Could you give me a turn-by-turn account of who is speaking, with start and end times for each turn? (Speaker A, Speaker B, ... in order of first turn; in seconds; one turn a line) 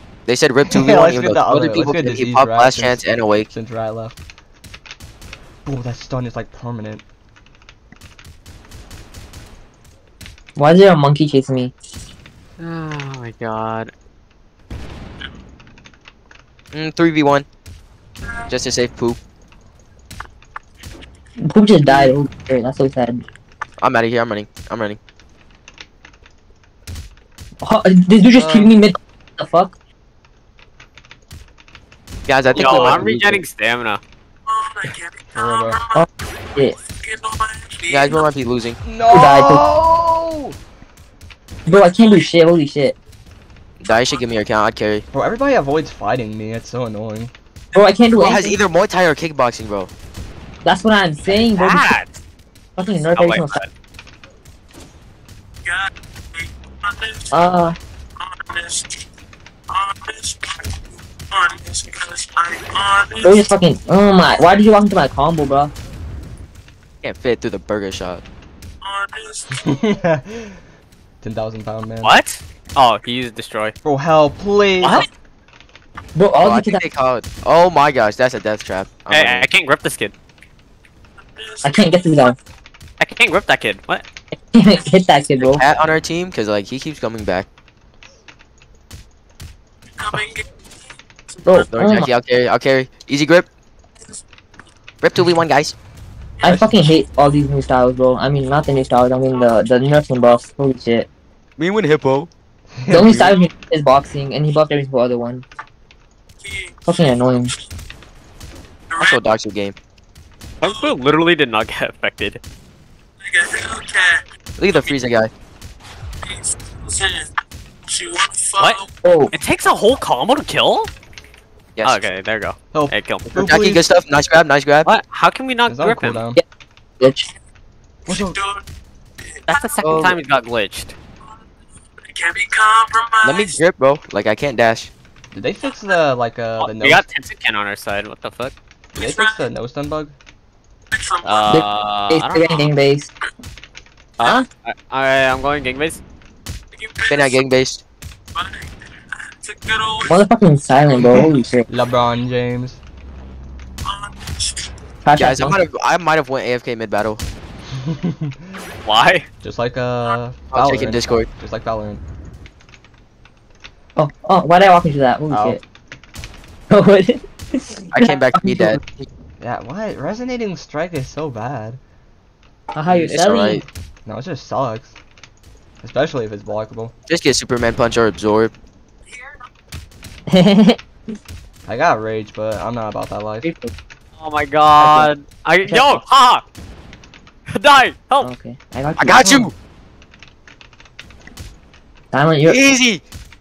Speaker A: 0.3-3.5
Speaker B: 0.7-4.2
Speaker B: 5.7-7.0
Speaker C: 10.6-11.7
Speaker D: 12.6-13.9
Speaker A: 16.7-17.5
Speaker A: 18.5-19.2
Speaker C: 21.4-23.2
Speaker B: 21.9-22.1
Speaker A: 23.8-25.0
Speaker C: 27.6-29.8
Speaker B: 28.4-28.7
Speaker A: 32.3-33.4
Speaker D: 32.5-34.0
Speaker B: 32.6-33.0
Speaker B: 35.3-35.8
Speaker C: 35.9-36.8
Speaker A: 37.9-38.8
Speaker B: 38.8-40.6
Speaker C: 39.1-39.6
Speaker C: 41.7-43.0
Speaker A: 43.8-45.0
Speaker B: 45.1-47.3
Speaker C: 47.7-48.6
Speaker A: 48.2-49.9
Speaker C: 50.6-51.9
Speaker D: 51.6-52.1
Speaker C: 52.8-53.6
Speaker D: 53.2-53.7
Speaker C: 57.3-57.8
Speaker C: 63.2-65.7
Speaker A: 67.0-68.2
Speaker B: 69.5-70.6
Speaker B: 71.2-72.1
Speaker D: 72.0-73.8
Speaker B: 73.8-75.0
Speaker D: 74.8-75.1
Speaker C: 76.2-76.8
Speaker A: 76.4-79.5
Speaker D: 79.1-80.1
Speaker C: 81.6-82.4
Speaker D: 83.0-84.0
Speaker C: 84.5-85.6
Speaker A: 85.4-87.5
Speaker C: 91.5-92.1
Speaker A: 91.5-93.5
Speaker A: 95.0-95.8
Speaker C: 96.4-101.1
Speaker B: 96.4-96.9
Speaker A: 101.6-102.3
Speaker B: 102.8-103.3
Speaker C: 102.9-105.5
Speaker C: 106.8-107.5
Speaker A: 109.0-109.8
Speaker D: 110.6-112.4
Speaker A: 114.6-115.3
Speaker D: 118.6-120.9
Speaker C: 119.0-119.3
Speaker A: 121.8-122.0
Speaker D: 121.8-123.3
Speaker B: 122.7-124.0
Speaker A: 123.4-124.9
Speaker D: 124.8-126.2
Speaker B: 125.7-126.4
Speaker C: 127.0-127.3
Speaker B: 128.1-128.4
Speaker D: 129.5-131.0
Speaker A: 129.8-130.2
Speaker A: 133.2-134.9
Speaker B: 135.3-137.1
Speaker D: 136.6-138.5
Speaker B: 138.9-140.2
Speaker D: 141.2-142.6
Speaker C: 141.5-143.1
Speaker D: 144.2-146.0
Speaker A: 147.1-147.8
Speaker C: 150.1-151.7
Speaker B: 151.7-152.8
Speaker C: 155.0-155.6
Speaker A: 155.2-157.2
Speaker B: 157.8-158.4
Speaker D: 158.8-159.2
Speaker B: 159.4-162.0
Speaker A: 160.5-161.3
Speaker C: 164.0-165.6
Speaker B: 165.3-165.6
Speaker C: 166.7-169.1
Speaker A: 167.9-168.8
Speaker B: 169.4-171.8
Speaker C: 172.8-173.6
Speaker A: 172.9-173.6
Speaker B: 174.1-175.0
Speaker B: 175.8-176.9
Speaker A: 177.1-178.5
Speaker C: 180.3-180.8
Speaker B: 181.7-183.5
Speaker C: 183.4-183.7
Speaker D: 184.2-186.4
Speaker C: 184.8-185.1
Speaker C: 185.7-186.0
Speaker D: 187.5-188.3
Speaker C: 188.2-189.5
Speaker A: 189.0-189.5
Speaker B: 189.2-189.5
Speaker C: 192.1-192.6
Speaker A: 192.4-193.0